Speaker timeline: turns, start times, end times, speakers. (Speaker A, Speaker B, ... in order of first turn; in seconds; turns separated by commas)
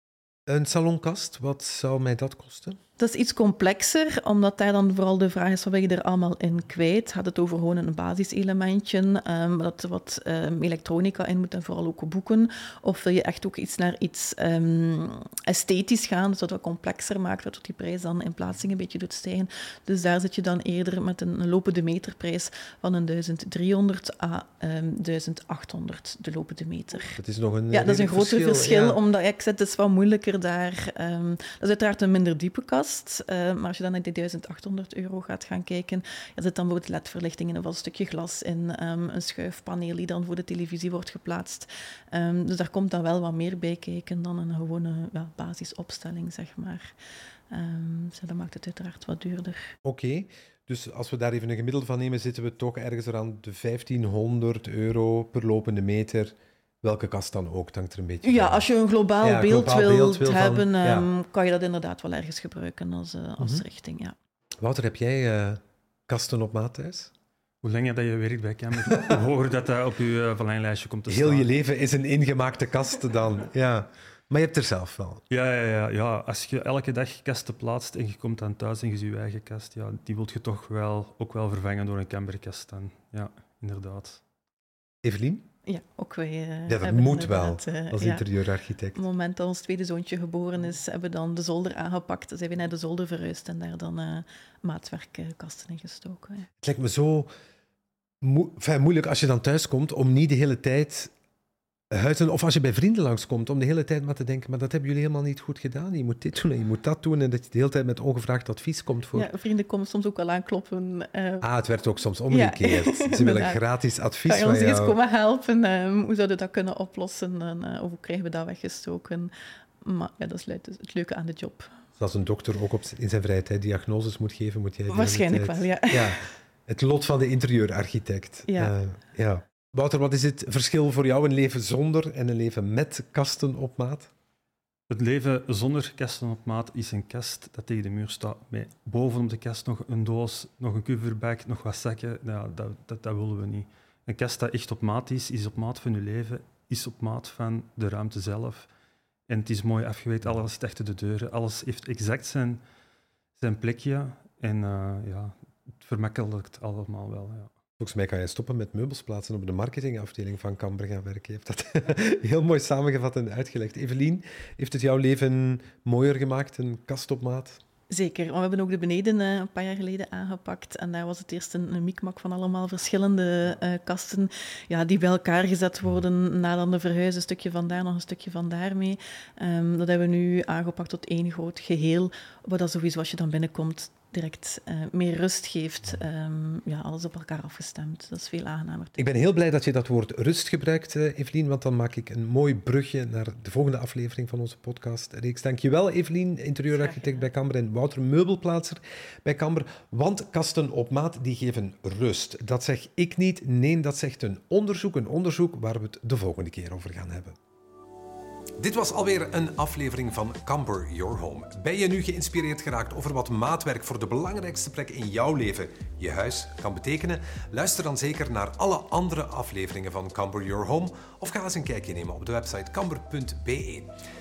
Speaker A: 0.5-2.8, Speaker B: 3.0-27.2, Speaker A: 27.1-29.0, Speaker B: 27.7-46.9, Speaker B: 47.5-49.7, Speaker A: 49.8-58.6, Speaker B: 58.2-64.1, Speaker A: 59.2-61.1, Speaker A: 63.4-63.6, Speaker A: 64.6-67.1, Speaker C: 67.6-71.5, Speaker A: 68.8-69.2, Speaker A: 71.1-75.2, Speaker C: 75.3-84.2, Speaker A: 85.0-85.4, Speaker B: 85.6-88.3, Speaker A: 86.7-89.0, Speaker B: 88.9-96.5, Speaker A: 96.6-97.3, Speaker A: 98.2-101.1, Speaker A: 101.9-109.3, Speaker B: 109.1-111.5, Speaker A: 111.4-115.0, Speaker B: 112.3-113.6, Speaker B: 114.2-121.7, Speaker A: 122.0-134.1, Speaker B: 124.9-126.2, Speaker B: 128.5-128.7, Speaker C: 134.9-148.7, Speaker C: 149.3-152.6, Speaker C: 153.4-157.5, Speaker A: 157.8-167.6, Speaker B: 167.9-189.0, Speaker A: 189.0-207.3, Speaker B: 196.7-197.3, Speaker A: 208.6-223.9